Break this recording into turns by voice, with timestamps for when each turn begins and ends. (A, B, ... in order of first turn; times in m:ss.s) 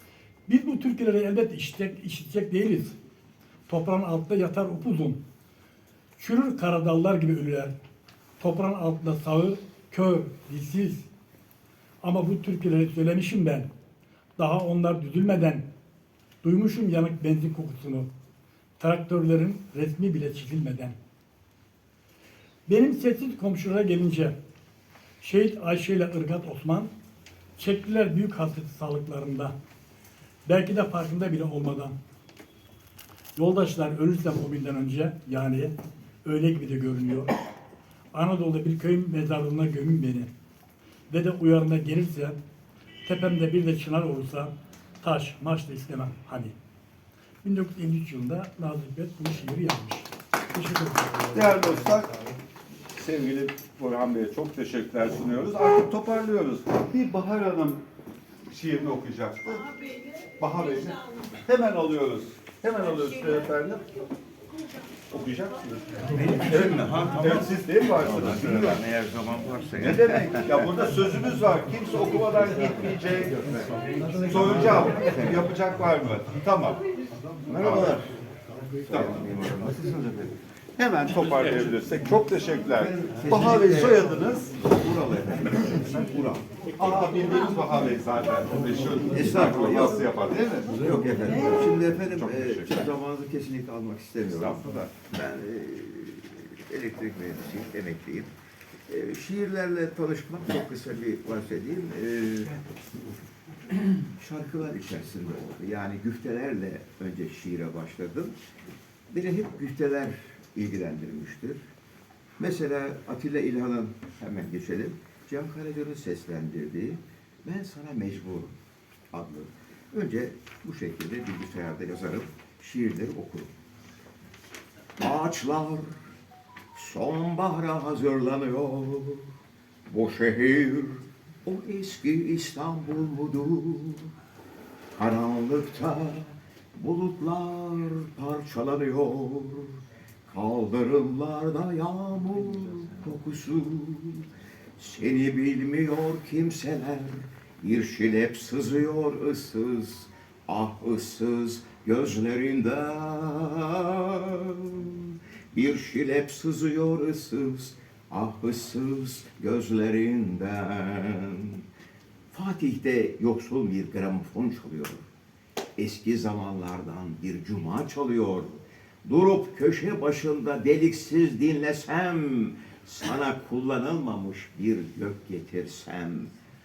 0:00.5-0:02.9 A
0:03.7-0:05.2 A
0:06.2-0:07.7 A
0:08.4-0:11.1 A
0:12.0-0:13.7 A
0:14.4-0:15.6 A
0:16.4-0:18.1 A
0:18.8-0:20.9 A
0:22.7-0:24.3 A
0:25.2-0:26.9 A
0:27.6-0:29.5 A
0:30.4-0:31.9 A
0:33.4-0:35.7 A
0:36.2-0:37.3 A
0:38.1-0:40.3 A
0:41.1-0:42.4 A
0:43.0-0:46.5 A
0:47.4-0:51.7 A
0:51.4-0:52.4 B
0:52.9-0:57.8 B
0:58.5-1:03.8 B
1:05.1-1:08.8 B
1:06.1-1:10.8 C
1:09.8-1:16.8 B
1:13.9-1:15.4 C
1:17.4-1:20.4 C
1:17.5-1:18.0 B
1:18.9-1:19.2 B
1:20.8-1:24.6 B
1:22.8-1:26.6 C
1:26.7-1:30.8 B
1:29.1-1:30.1 C
1:30.7-1:38.3 C
1:31.4-1:32.9 B
1:34.3-1:34.9 B
1:38.9-1:42.6 C
1:43.8-1:48.4 C
1:49.1-1:51.6 C
1:52.4-1:58.5 C
1:59.1-2:03.5 C
2:05.0-2:06.0 C
2:06.7-2:09.3 C
2:09.9-2:14.1 C
2:14.9-2:41.6 C
2:42.3-2:45.0 C
2:45.8-2:56.3 C